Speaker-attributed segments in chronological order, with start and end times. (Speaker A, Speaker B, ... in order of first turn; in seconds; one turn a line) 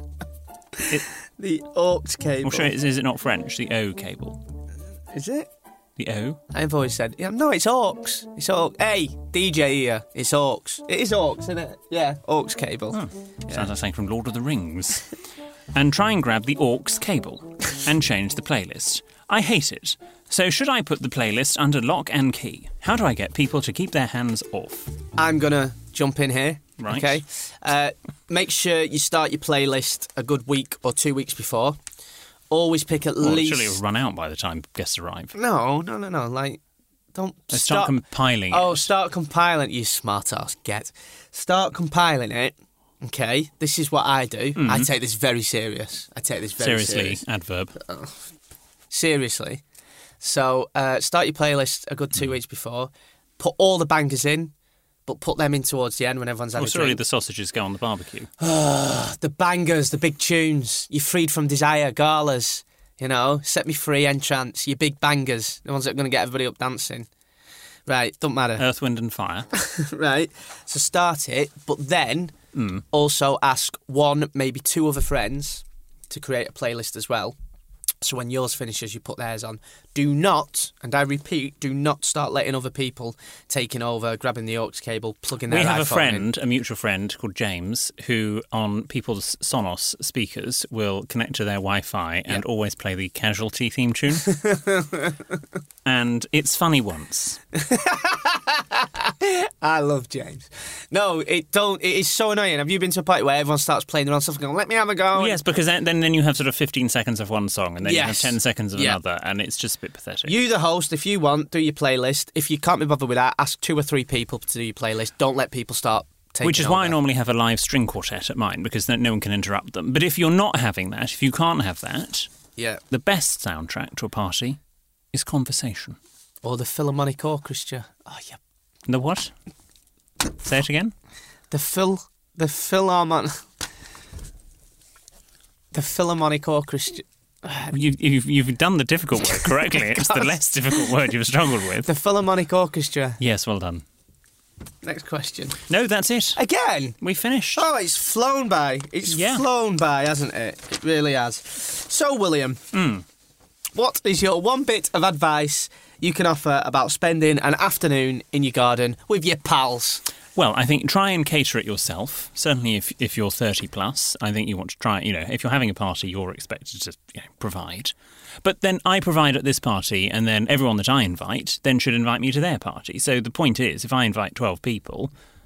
Speaker A: 0.8-2.7
Speaker B: 2.4-4.4
Speaker A: 5.1-5.5
Speaker B: 6.0-6.4
Speaker A: 6.5-13.7
Speaker B: 12.9-15.1
Speaker B: 15.7-24.9
Speaker A: 25.2-31.8
Speaker B: 26.8-27.2
Speaker A: 32.5-33.8
Speaker B: 33.2-35.4
Speaker A: 35.4-36.6
Speaker A: 37.1-47.2
Speaker B: 37.5-38.9
Speaker B: 44.6-44.9
Speaker B: 46.6-47.8
Speaker A: 47.8-48.2
Speaker A: 48.9-49.6
Speaker A: 50.2-54.5
Speaker A: 55.1-57.0
Speaker B: 56.6-58.3
Speaker A: 58.4-67.1
Speaker A: 67.9-68.7
Speaker B: 68.6-69.5
Speaker A: 69.5-72.3
Speaker B: 72.5-72.8
Speaker A: 72.9-77.4
Speaker A: 78.0-86.3
Speaker B: 85.5-94.4
Speaker A: 94.3-95.2
Speaker B: 95.8-97.4
Speaker A: 97.5-105.4
Speaker B: 105.1-110.3
Speaker A: 107.8-109.0
Speaker A: 110.3-117.0
Speaker B: 116.4-122.3
Speaker A: 122.6-122.8
Speaker B: 122.9-124.6
Speaker B: 125.1-126.0
Speaker A: 126.4-128.4
Speaker B: 128.9-129.3
Speaker B: 130.4-130.9
Speaker A: 131.5-133.4
Speaker A: 135.7-137.7
Speaker B: 137.7-141.9
Speaker A: 139.7-140.8
Speaker A: 141.8-143.2
Speaker B: 143.2-143.8
Speaker A: 144.8-145.6
Speaker B: 145.7-146.4
Speaker A: 146.4-147.0
Speaker B: 147.0-147.7
Speaker A: 147.6-152.6
Speaker B: 149.1-149.5
Speaker B: 152.7-153.1
Speaker A: 153.7-160.0
Speaker B: 160.4-175.1